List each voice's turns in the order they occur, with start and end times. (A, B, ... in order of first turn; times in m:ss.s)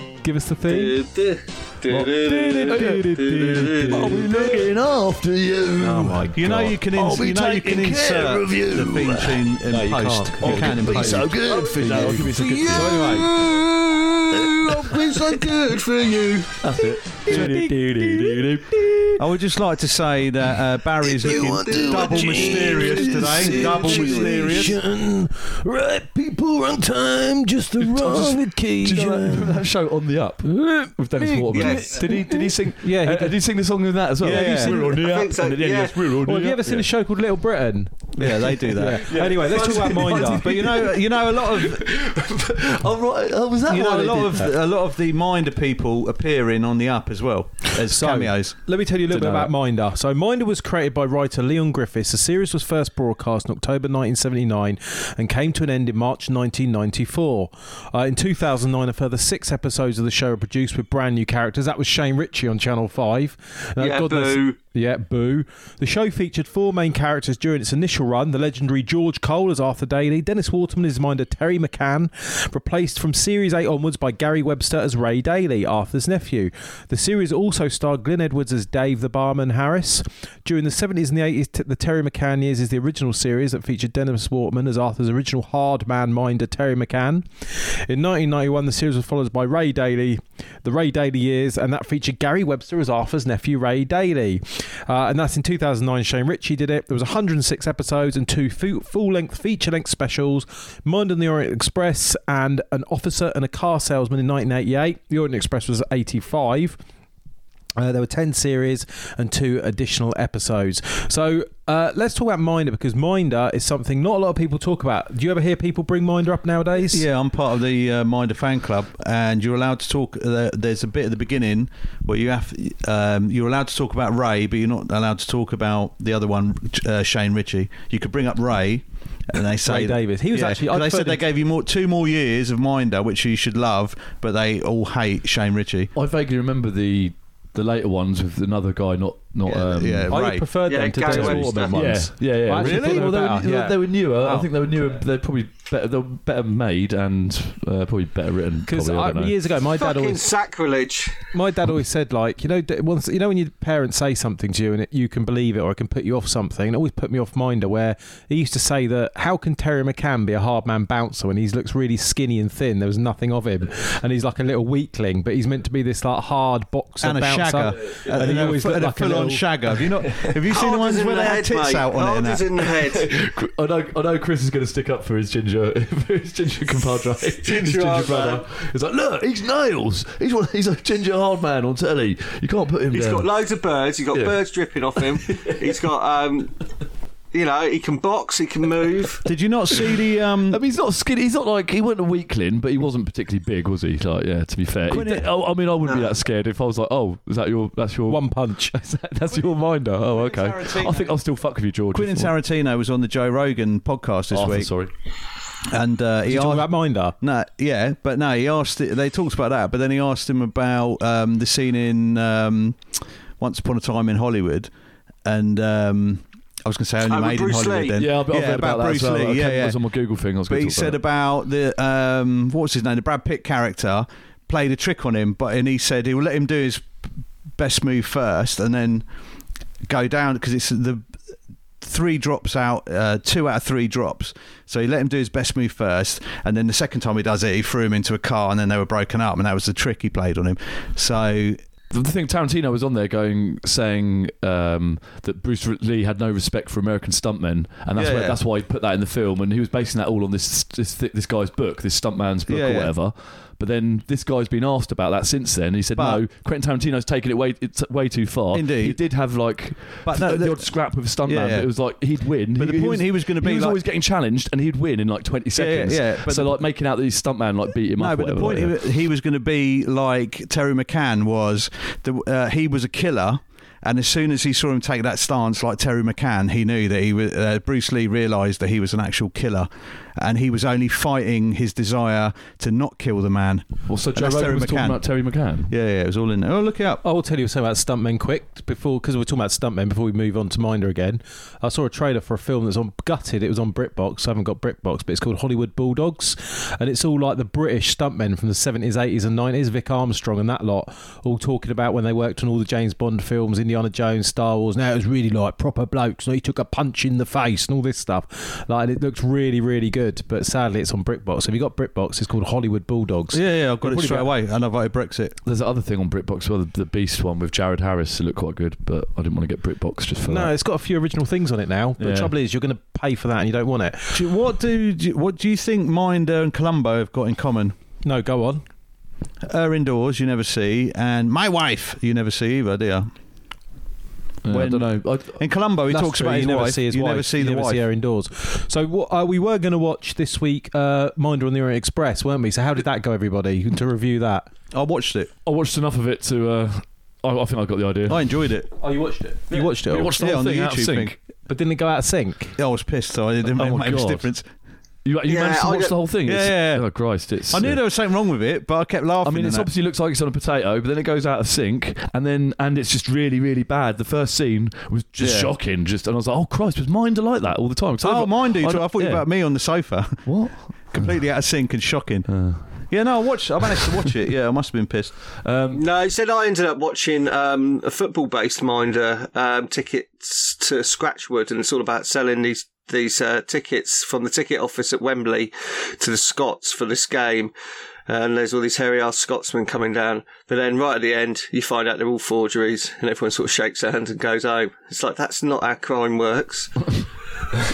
0:00.2-0:01.0 A
0:00.7-0:04.6 B
0:01.9-0:13.2 C
0:02.3-0:04.5 A
0:05.8-0:06.7 A
0:06.3-0:11.4 D
0:09.7-0:13.3 A
0:11.4-0:16.6 B
0:14.7-0:15.2 C
0:16.6-0:19.2 C
0:17.3-0:18.8 A
0:19.2-0:24.8 D
0:21.0-0:29.6 A
0:21.7-0:22.8 B
0:23.0-0:24.7 C
0:23.8-0:24.2 B
0:27.8-0:36.9 C
0:30.5-0:33.4 A
0:31.5-0:32.0 B
0:34.2-0:35.0 D
0:34.2-0:34.7 A
0:34.5-0:36.0 B
0:36.2-0:40.8 A
0:38.2-0:41.9 D
0:38.6-0:44.5 C
0:43.7-0:48.6 D
0:47.8-1:46.8 A
0:49.1-0:49.5 C
1:03.8-1:04.6 B
1:47.8-1:57.1 A
1:56.8-2:15.9 D
2:09.6-2:11.2 A
2:16.0-2:20.2 C
2:19.5-2:20.5 D
2:20.1-2:23.8 A
2:20.6-2:21.8 B
2:21.0-2:29.3 C
2:22.6-2:23.6 D
2:24.2-2:24.5 D
2:28.7-2:30.2 A
2:29.8-2:31.2 B
2:31.3-2:49.5 A
2:47.0-2:52.5 D
2:50.5-2:53.1 B
2:52.8-3:03.3 C
2:57.4-2:58.5 B
3:02.9-3:06.6 B
3:04.1-3:04.4 C
3:05.0-3:05.8 C
3:07.3-3:09.2 B
3:09.2-3:10.6 D
3:10.5-3:22.3 C
3:14.9-3:15.2 A
3:18.1-3:18.7 A
3:20.1-3:21.2 D
3:21.9-3:24.7 D
3:24.3-3:24.9 C
3:25.7-3:32.9 D
3:26.3-3:27.2 A
3:33.4-3:34.7 D
3:35.2-3:39.8 D
3:37.1-3:38.0 B
3:38.0-3:41.0 C
3:40.5-3:46.9 D
3:47.6-3:49.1 D
3:49.9-3:51.1 D
3:51.8-4:01.6 D
4:01.9-4:28.8 C
4:08.0-4:08.4 D
4:12.5-4:12.9 D
4:16.0-4:16.2 D
4:18.5-4:19.0 D
4:20.0-4:20.7 D
4:21.3-4:21.7 D
4:22.6-4:23.8 D
4:25.6-4:26.5 D
4:28.0-4:45.0 D
4:43.9-4:45.7 C
4:45.7-4:47.0 D
4:47.0-5:14.3 A
5:13.3-5:15.4 D
5:15.5-5:20.5 C
5:20.3-5:24.2 A
5:22.0-5:22.3 C
5:24.1-5:27.8 D
5:28.0-5:28.6 A
5:29.5-5:33.1 D
5:34.4-5:35.4 C
5:34.5-5:37.8 D
5:35.9-5:44.5 A
5:44.7-5:45.3 D
5:45.4-5:48.4 C
5:48.1-5:48.7 D
5:48.8-5:50.1 A
5:49.5-5:51.2 C
5:50.1-5:51.1 D
5:51.5-5:52.6 A
5:52.6-5:54.5 D
5:53.5-5:54.3 C
5:55.0-5:57.8 C
5:55.3-5:56.0 B
5:56.3-5:56.8 D
5:57.5-5:59.7 D
5:59.2-6:09.2 C
6:05.2-6:05.5 D
6:08.0-6:10.3 D
6:10.2-6:11.2 C
6:10.9-6:15.2 D
6:12.3-6:12.7 C
6:15.4-6:15.8 C
6:15.7-6:27.5 B
6:28.1-6:36.8 B